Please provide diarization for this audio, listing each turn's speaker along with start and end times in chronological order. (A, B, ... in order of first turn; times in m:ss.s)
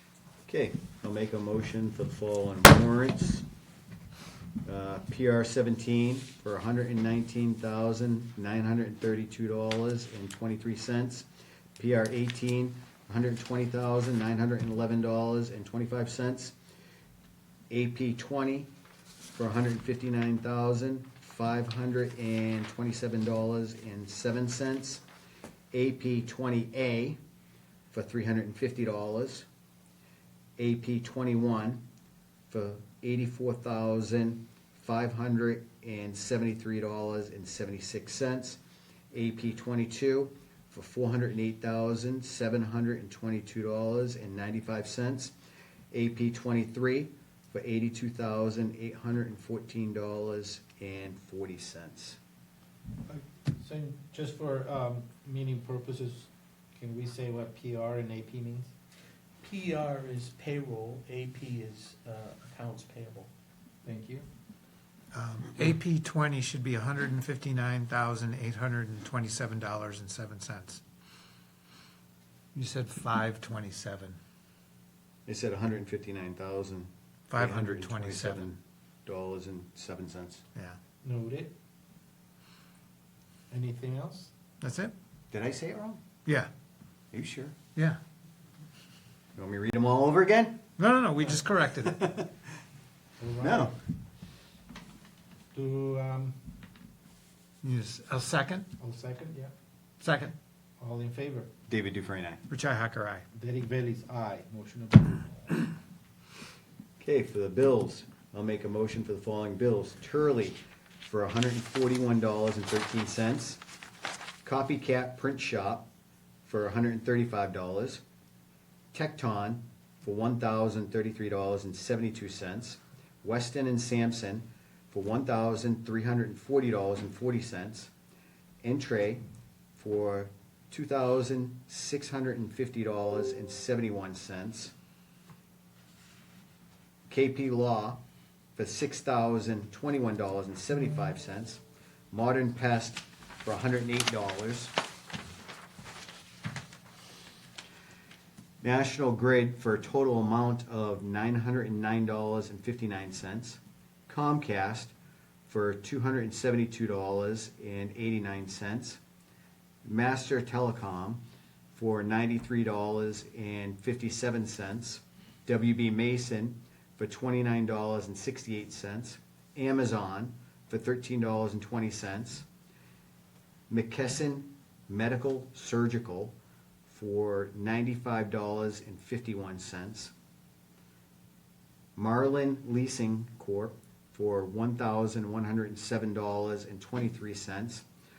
0:00.4-0:03.4 A
0:04.6-0:16.6 A
0:17.7-0:18.7 A
0:19.2-0:25.0 A
0:25.7-0:27.2 A
0:27.9-0:29.5 A
0:30.6-0:31.8 A
0:32.5-0:38.6 A
0:39.1-0:45.3 A
0:45.9-0:52.2 A
0:53.1-0:58.7 B
0:59.4-1:03.3 C
1:03.8-1:04.3 B
1:05.1-1:10.8 D
1:12.5-1:14.2 D
1:15.2-1:20.4 A
1:17.3-1:18.5 D
1:21.0-1:21.5 B
1:23.5-1:24.3 B
1:24.6-1:24.9 D
1:25.3-1:26.0 A
1:26.2-1:26.5 D
1:27.1-1:27.5 A
1:29.3-1:30.6 A
1:30.8-1:32.0 D
1:31.8-1:32.3 A
1:33.2-1:33.8 B
1:33.4-1:33.7 A
1:35.5-1:36.5 B
1:37.6-1:38.7 D
1:38.8-1:39.5 B
1:40.0-1:40.4 D
1:40.8-1:41.5 B
1:41.7-1:42.4 A
1:42.5-1:43.2 D
1:43.3-1:45.6 B
1:47.0-1:53.6 A
1:54.4-1:55.9 A
1:56.4-1:58.0 A
1:58.9-2:07.9 A
2:08.6-2:09.2 A
2:09.8-2:14.7 A
2:17.1-2:18.0 A
2:18.6-2:24.7 A
2:28.6-2:34.9 A
2:35.5-2:39.0 A
2:39.8-2:41.2 A
2:41.7-2:52.4 A
2:53.7-2:56.4 A
2:56.9-3:00.1 A
3:02.0-3:07.8 A